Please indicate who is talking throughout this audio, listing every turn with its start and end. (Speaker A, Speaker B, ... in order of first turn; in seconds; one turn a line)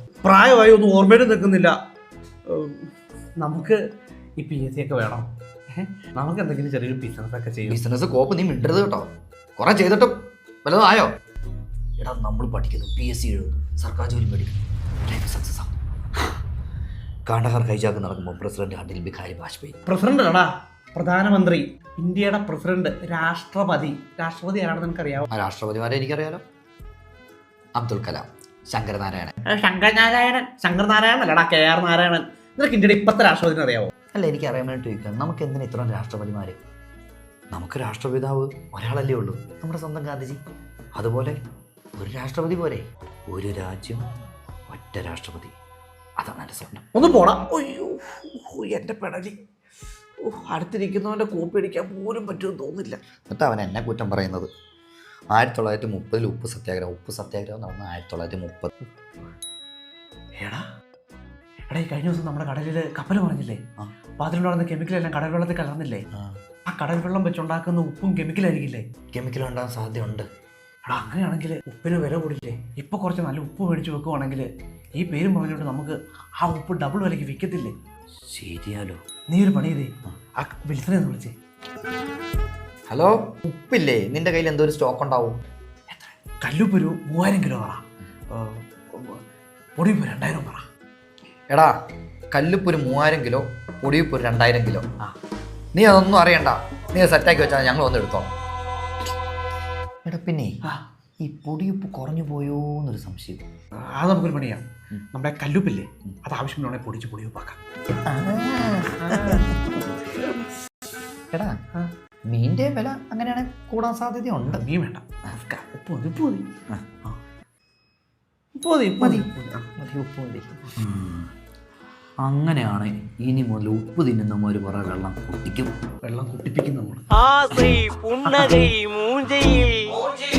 Speaker A: 0.2-1.8
Speaker A: 2.5-3.8
Speaker A: 4.4-7.8
Speaker B: 7.7-11.1
Speaker B: 12.0-15.7
Speaker B: 17.3-19.8
Speaker A: 19.9-25.3
Speaker B: 25.3-26.4
Speaker B: 27.8-29.3
Speaker A: 29.4-33.9
Speaker B: 34.1-36.6
Speaker B: 37.5-40.4
Speaker B: 41.0-41.4
Speaker B: 42.0-44.1
Speaker B: 44.7-45.5
Speaker B: 46.2-46.9
Speaker A: 46.9-49.4
Speaker A: 50.2-53.0
Speaker B: 53.3-54.5
Speaker B: 55.3-58.7
Speaker A: 60.4-60.7
Speaker A: 61.7-63.6
Speaker A: 64.2-66.0
Speaker A: 66.7-68.9
Speaker B: 69.1-70.3
Speaker A: 70.9-77.7
Speaker B: 78.3-79.0
Speaker A: 79.3-81.3
Speaker B: 82.9-85.4
Speaker A: 85.9-89.2
Speaker A: 89.8-90.6
Speaker B: 92.3-94.9
Speaker B: 95.8-98.3
Speaker B: 100.0-100.6
Speaker B: 101.2-103.4
Speaker A: 103.8-107.6
Speaker B: 108.1-109.5
Speaker A: 109.1-109.6
Speaker B: 111.3-111.6
Speaker B: 112.3-114.6
Speaker A: 114.4-116.5
Speaker B: 116.7-117.2
Speaker A: 118.6-119.7
Speaker B: 119.0-121.3
Speaker B: 122.2-125.8
Speaker A: 126.0-127.1
Speaker C: 127.2-130.0
Speaker A: 128.2-128.7